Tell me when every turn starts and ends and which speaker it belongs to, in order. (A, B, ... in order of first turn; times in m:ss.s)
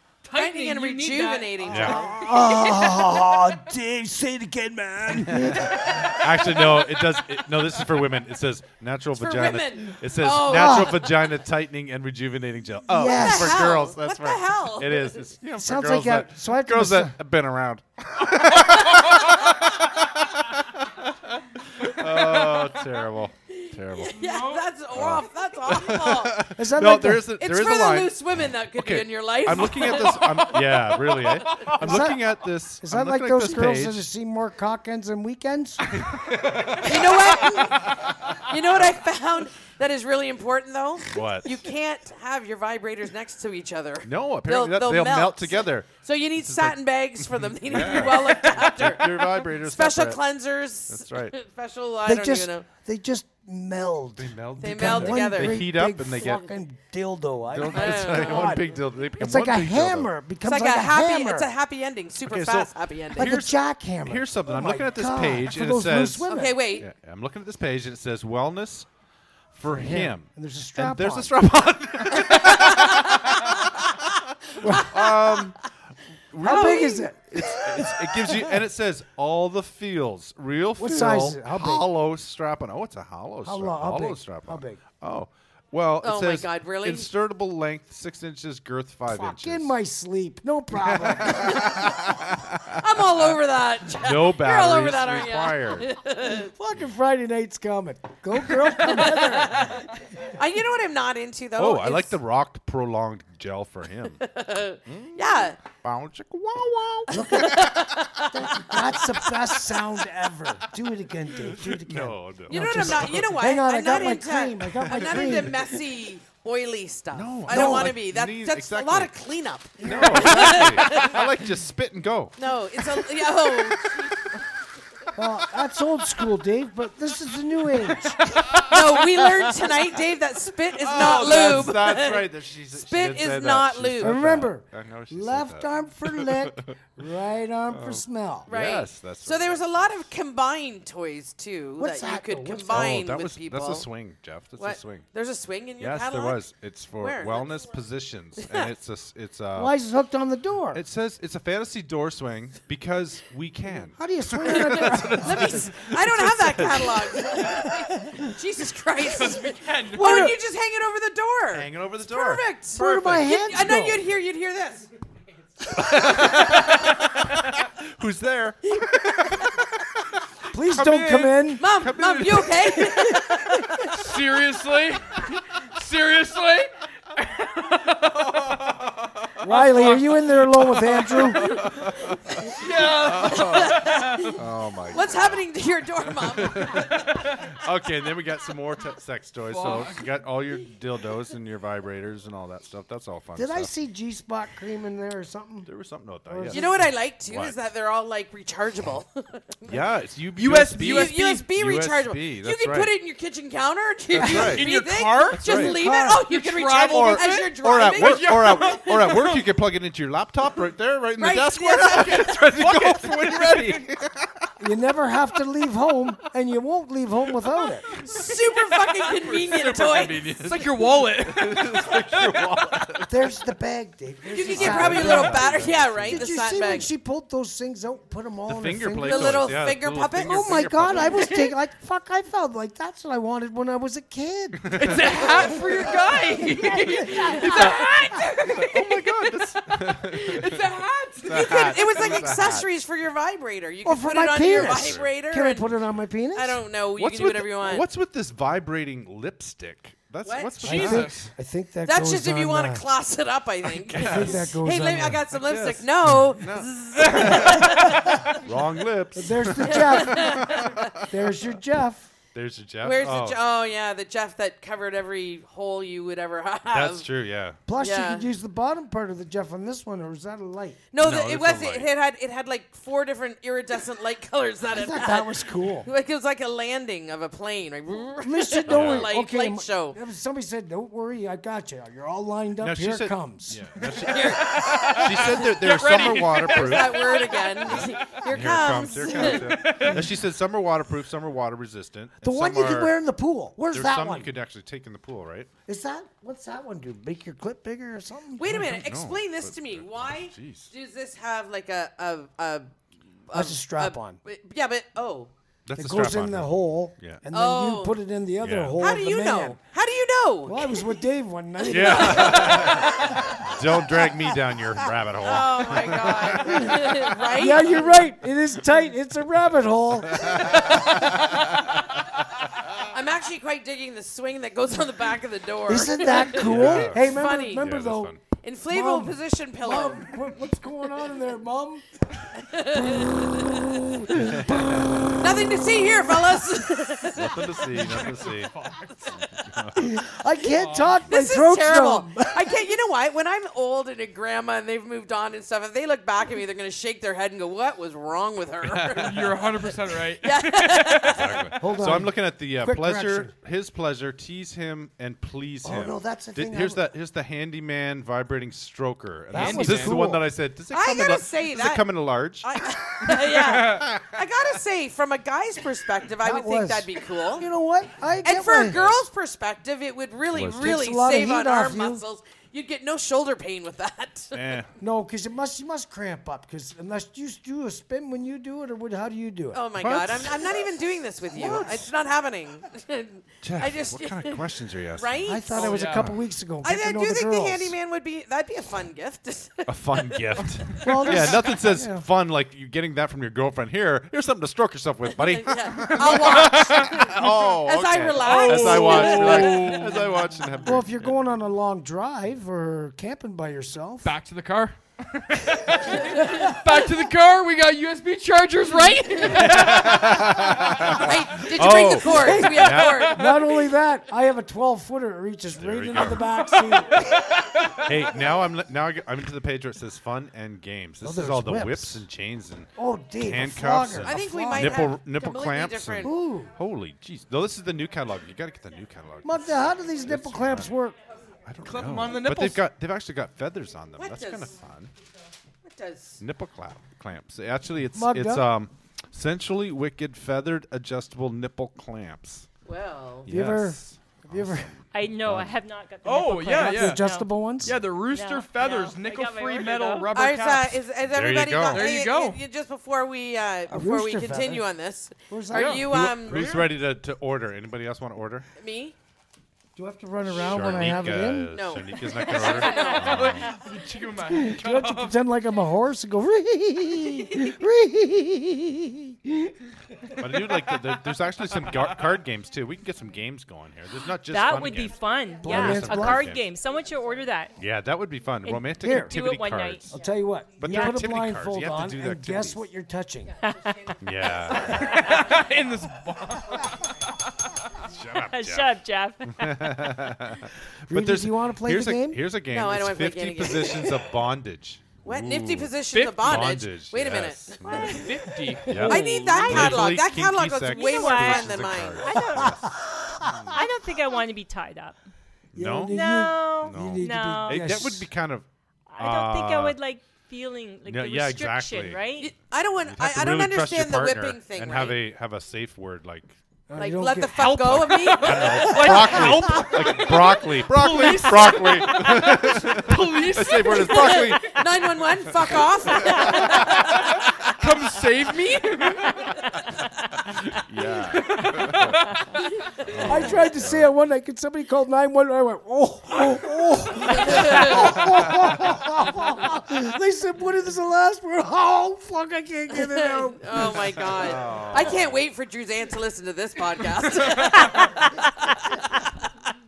0:00.2-0:02.8 A
0:00.3-0:02.8 B
0:01.7-0:02.1 C
0:01.7-0:06.2 D
0:05.1-0:24.2 C
0:09.1-0:11.0 B
0:10.4-0:11.1 D
0:12.9-0:13.7 D
0:13.0-0:15.2 B
0:15.6-0:17.2 D
0:23.5-0:26.4 B
0:24.2-0:24.7 A
0:24.9-0:34.1 C
0:26.6-0:27.3 D
0:27.4-0:30.9 B
0:30.2-0:31.8 A
0:31.7-0:36.0 D
0:35.9-0:39.0 C
0:36.8-0:52.7 B
0:41.1-0:41.6 C
0:44.0-0:46.8 C
0:47.4-0:50.2 C
0:50.9-0:51.4 C
0:52.0-1:01.5 D
0:54.2-0:56.5 C
0:54.6-0:56.5 B
0:57.5-1:00.1 C
0:57.7-0:58.6 B
1:00.4-1:03.4 B
1:02.3-1:08.9 C
1:03.2-1:06.6 D
1:06.3-1:06.9 B
1:09.5-1:13.9 C
1:09.7-1:11.3 D
1:12.3-1:13.2 B
1:14.5-1:15.7 C
1:14.6-1:14.9 D
1:14.7-1:15.3 B
1:16.3-1:29.7 C
1:16.4-1:18.6 D
1:16.4-1:17.1 B
1:20.8-1:21.9 D
1:23.4-1:24.8 D
1:26.0-1:27.1 B
1:29.1-1:31.8 D
1:30.7-1:35.9 C
1:31.5-1:31.9 B
1:32.8-1:36.5 B
1:36.5-1:39.8 D
1:38.8-1:42.2 B
1:41.6-1:44.2 C
1:44.2-1:45.6 B
1:44.9-1:48.2 C
1:47.1-1:55.8 D
1:47.2-1:49.4 B
1:51.4-1:53.4 C
1:52.5-2:01.2 B
1:54.8-1:55.4 C
1:57.1-1:59.1 C
1:57.5-1:58.0 D
1:59.8-2:00.8 D
1:59.8-2:02.4 C
2:02.4-2:04.4 B
2:05.2-2:08.3 D
2:07.8-2:08.8 C
2:08.5-2:14.2 B
2:10.8-2:16.7 C
2:10.9-2:11.8 D
2:14.0-2:18.5 D
2:17.7-2:19.9 C
2:18.5-2:23.9 B
2:21.8-2:23.0 D
2:22.7-2:25.1 C
2:24.6-2:26.4 B
2:25.8-2:29.7 C
2:27.0-2:27.6 B
2:28.4-2:28.7 B
2:29.5-2:30.8 D
2:30.7-2:37.4 C
2:33.7-2:35.7 D
2:34.5-2:44.9 B
2:37.3-2:38.3 D
2:39.0-2:40.3 A
2:39.9-2:40.4 D
2:41.5-2:43.2 C
2:42.7-2:44.0 D
2:45.7-2:49.6 C
2:45.8-2:46.4 B
2:50.5-2:51.6 D
2:50.6-2:52.9 C
2:51.6-2:53.7 B
2:52.8-2:53.6 D
2:53.9-2:58.4 A
2:58.4-2:59.3 C
2:59.4-3:01.5 D
2:59.4-3:01.8 A
3:01.3-3:05.5 C
3:02.4-3:04.4 A
3:03.2-3:04.4 B
3:04.9-3:07.0 B
3:06.1-3:13.7 C
3:09.5-3:10.1 A
3:13.4-3:15.7 D
3:15.6-3:16.7 C
3:16.3-3:16.9 D
3:16.5-3:19.9 B
3:17.3-3:17.6 C
3:19.7-3:22.9 C
3:20.4-3:21.5 A
3:20.8-3:28.7 B
3:24.1-3:24.7 C
3:24.2-3:29.6 A
3:25.4-3:25.8 C
3:25.8-3:26.2 D
3:26.8-3:34.5 C
3:31.2-3:32.7 B
3:32.2-3:33.8 A
3:34.6-3:37.9 D
3:37.9-3:38.4 C
3:38.0-3:40.2 B
3:39.0-3:43.2 C
3:40.4-3:42.7 A
3:43.1-3:49.6 D
3:44.3-3:46.9 B
3:44.4-3:46.8 C
3:48.5-3:51.4 C
3:49.0-3:51.5 B
3:50.2-3:57.9 D
3:54.6-3:55.5 C
3:54.7-4:02.5 A
3:55.7-3:58.1 B
3:58.4-4:02.7 C
3:58.8-3:59.1 B
4:01.3-4:05.8 B
4:03.8-4:06.6 D
4:04.4-4:05.1 C
4:06.3-4:07.9 B
4:07.0-4:11.1 C
4:10.2-4:10.9 B
4:10.6-4:11.3 A
4:10.6-4:12.9 D
4:11.8-4:18.4 B
4:13.7-4:14.6 C
4:14.0-4:15.3 D
4:15.4-4:21.5 C
4:19.2-4:20.6 D
4:19.6-4:21.0 B
4:21.1-4:22.1 D
4:22.3-4:23.4 C
4:22.8-4:27.1 B
4:26.7-4:27.6 C
4:27.7-4:30.8 D
4:27.8-4:28.3 B
4:30.9-4:40.0 B
4:31.0-4:31.9 C
4:34.7-4:35.9 D
4:38.2-4:43.7 D
4:38.7-4:39.1 C
4:42.6-4:47.1 C
4:44.0-4:49.9 B
4:44.1-4:48.2 A
4:48.3-4:52.9 C
4:49.5-4:50.1 A
4:52.2-4:54.3 D
4:53.7-4:55.5 C
4:55.7-4:58.5 D
4:58.4-5:02.7 B
4:58.4-5:00.7 C
5:03.3-5:05.3 B
5:03.3-5:04.2 D
5:05.7-5:07.2 C
5:05.8-5:09.6 D
5:07.3-5:08.0 B
5:08.4-5:08.8 C
5:08.8-5:11.0 B
5:10.5-5:13.6 D
5:11.6-5:13.2 B
5:11.7-5:16.9 C
5:15.2-5:18.0 B
5:16.4-5:21.2 D
5:20.1-5:21.8 C
5:22.9-5:27.7 B
5:25.7-5:28.1 D
5:26.3-5:28.2 C
5:28.4-5:30.1 B
5:28.7-5:31.8 D
5:32.4-5:34.0 B
5:32.5-5:35.1 D
5:34.2-5:35.2 C
5:35.2-5:38.0 B
5:37.1-5:38.5 C
5:37.7-5:39.2 A
5:39.4-5:40.0 C
5:39.8-5:42.6 D
5:40.5-5:41.0 A
5:41.1-5:51.5 B
5:48.8-5:51.3 A
5:51.1-6:04.2 C
5:51.6-5:53.3 D
5:55.6-5:56.8 D
5:59.3-6:00.3 D
5:59.3-6:00.1 A
6:00.7-6:07.5 B
6:03.1-6:03.9 A
6:06.2-6:08.9 D
6:08.2-6:14.6 B
6:08.7-6:09.0 C
6:10.3-6:10.8 C
6:10.4-6:12.0 D
6:14.3-6:14.7 C
6:14.8-6:19.6 D
6:19.5-6:26.0 B
6:19.8-6:20.5 C
6:21.3-6:21.8 D
6:23.4-6:25.4 C
6:25.3-6:27.8 D
6:25.6-6:26.1 A
6:26.6-6:31.4 B
6:29.7-6:41.1 C
6:30.8-6:32.1 D
6:35.2-6:40.0 B
6:38.2-6:40.1 A
6:40.6-6:44.1 D
6:44.0-6:50.1 A
6:45.8-6:46.5 D
6:49.3-6:53.2 C
6:50.9-6:53.5 B
6:52.1-6:57.2 D
6:55.6-6:56.3 C
6:56.6-6:57.8 A
6:57.7-7:10.7 C
7:01.0-7:02.1 D
7:02.8-7:05.0 D
7:04.0-7:06.2 B
7:06.0-7:06.5 D
7:09.2-7:11.0 D
7:11.4-7:14.9 C
7:11.6-7:12.6 A
7:14.0-7:14.5 B
7:15.6-7:16.2 B
7:16.2-7:22.5 C
7:17.9-7:18.5 D
7:22.6-7:23.3 B
7:23.3-7:24.7 D
7:23.3-7:25.5 C
7:24.9-7:27.3 E
7:26.0-7:27.1 A
7:26.5-7:27.8 D
7:27.6-7:30.8 A
7:27.9-7:30.1 E
7:30.1-7:36.6 B
7:31.0-7:31.9 C
7:31.7-7:32.4 A
7:33.7-7:34.7 D
7:35.3-7:35.9 D
7:35.6-7:36.7 A
7:35.7-7:38.5 C
7:38.6-7:39.0 B
7:39.8-7:41.7 D
7:40.3-7:43.6 C
7:41.5-7:43.5 B
7:42.5-7:42.9 E
7:42.7-7:45.2 A
7:44.3-7:49.5 D
7:50.0-7:50.3 D
7:50.2-7:56.5 C
7:54.3-7:57.5 E
7:55.4-7:56.3 D
7:57.6-8:00.0 C
7:58.4-8:00.0 E
7:58.8-7:59.2 D
7:59.9-8:03.4 D
8:00.6-8:02.6 C
8:00.6-8:01.1 E
8:03.4-8:03.9 E
8:04.0-8:05.0 C
8:04.5-8:05.2 E
8:04.6-8:06.9 A
8:07.8-8:08.7 C
8:08.3-8:09.8 E
8:09.4-8:18.1 C
8:10.9-8:12.2 D
8:12.5-8:14.0 B
8:15.0-8:18.0 B
8:15.9-8:16.5 A
8:17.6-8:18.0 E
8:17.8-8:19.8 A
8:18.6-8:19.0 D
8:18.7-8:23.6 C
8:18.8-8:20.0 E
8:18.8-8:22.2 B
8:20.7-8:22.7 E
8:22.5-8:23.6 D
8:23.5-8:25.0 E
8:25.6-8:26.0 C
8:25.6-8:28.1 D
8:25.9-8:27.7 E
8:26.6-8:28.5 C
8:28.9-8:32.3 E
8:29.0-8:29.8 C
8:30.9-8:32.0 C
8:32.2-8:35.0 B
8:32.8-8:36.4 C
8:36.7-8:37.8 D
8:36.8-8:38.9 B
8:37.4-8:44.3 A
8:37.4-8:47.2 C
8:38.6-8:39.8 D
8:43.7-8:47.0 B
8:47.0-8:49.4 A
8:50.5-8:53.9 C
8:51.2-8:52.0 A
8:53.0-9:04.0 D
8:57.1-8:58.0 B
8:57.8-8:58.5 C
9:02.7-9:09.3 B
9:03.7-9:05.2 C
9:07.2-9:07.7 A